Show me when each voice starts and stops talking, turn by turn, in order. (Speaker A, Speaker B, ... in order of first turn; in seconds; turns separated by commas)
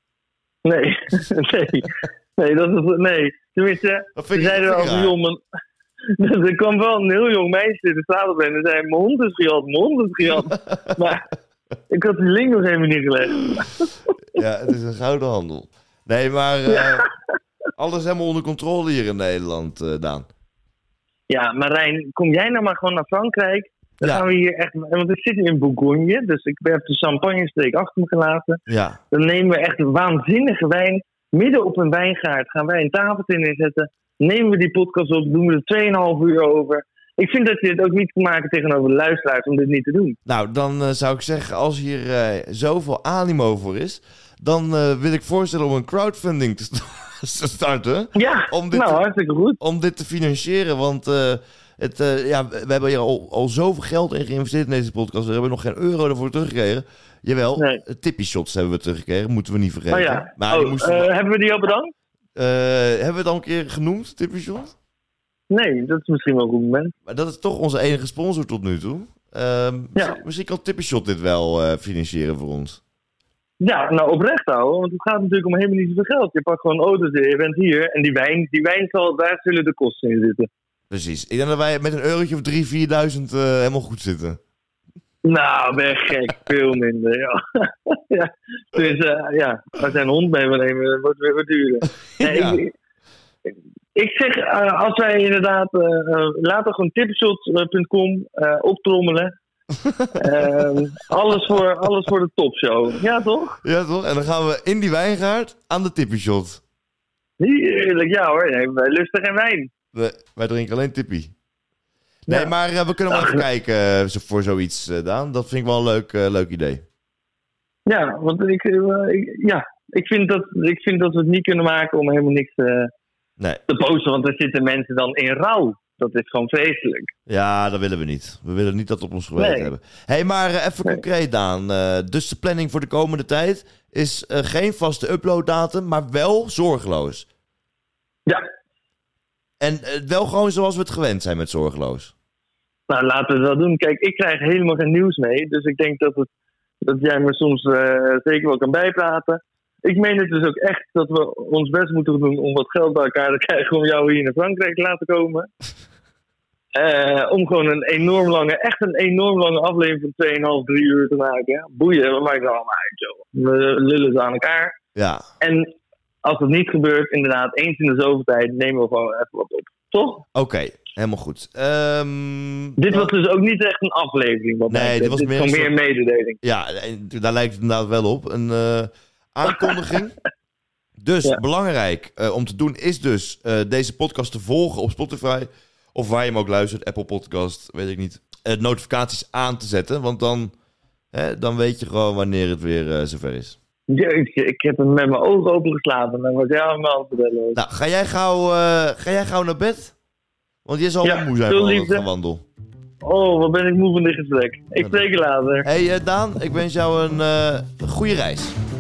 Speaker A: 0.7-5.4, Speaker B: 4.2-5.2, Speaker A: 6.2-11.2, Speaker B: 10.6-10.9, Speaker A: 11.9-13.9, Speaker B: 14.3-17.1, Speaker A: 16.7-17.1, Speaker B: 17.8-20.3, Speaker A: 21.3-40.2, Speaker B: 28.7-29.0, Speaker B: 40.3-49.0, Speaker A: 48.1-49.6, Speaker B: 49.6-61.1, Speaker A: 57.6-57.8, Speaker A: 59.9-61.9, Speaker B: 62.4-64.7, Speaker A: 65.5-66.9, Speaker B: 67.1-72.8, Speaker A: 73.6-80.5, Speaker B: 80.9-84.4, Speaker A: 85.2-92.7, Speaker B: 92.2-92.6, Speaker A: 93.5-99.3, Speaker B: 99.8-100.8, Speaker A: 100.2-103.6, Speaker B: 103.6-106.6, Speaker A: 107.4-109.7, Speaker B: 109.9-111.3, Speaker A: 112.3-112.5, Speaker B: 112.3-116.8, Speaker A: 113.1-113.5, Speaker A: 117.9-122.9, Speaker A: 123.7-127.1, Speaker B: 127.3-137.3, Speaker A: 129.4-129.7, Speaker B: 139.6-142.1, Speaker A: 142.9-146.3, Speaker A: 146.8-155.5, Speaker A: 156.8-164.8, Speaker B: 164.9-165.2, Speaker A: 165.4-165.7, Speaker A: 166.2-170.2, Speaker B: 170.3-173.1, Speaker A: 172.8-176.4, Speaker B: 174.7-175.7, Speaker B: 176.4-180.2, Speaker A: 179.4-179.9, Speaker B: 181.0-190.5, Speaker B: 191.1-193.6, Speaker A: 193.9-197.6, Speaker B: 197.6-199.9, Speaker B: 200.7-202.4, Speaker A: 201.0-202.1, Speaker A: 203.0-205.7, Speaker B: 204.8-205.1, Speaker B: 205.6-208.6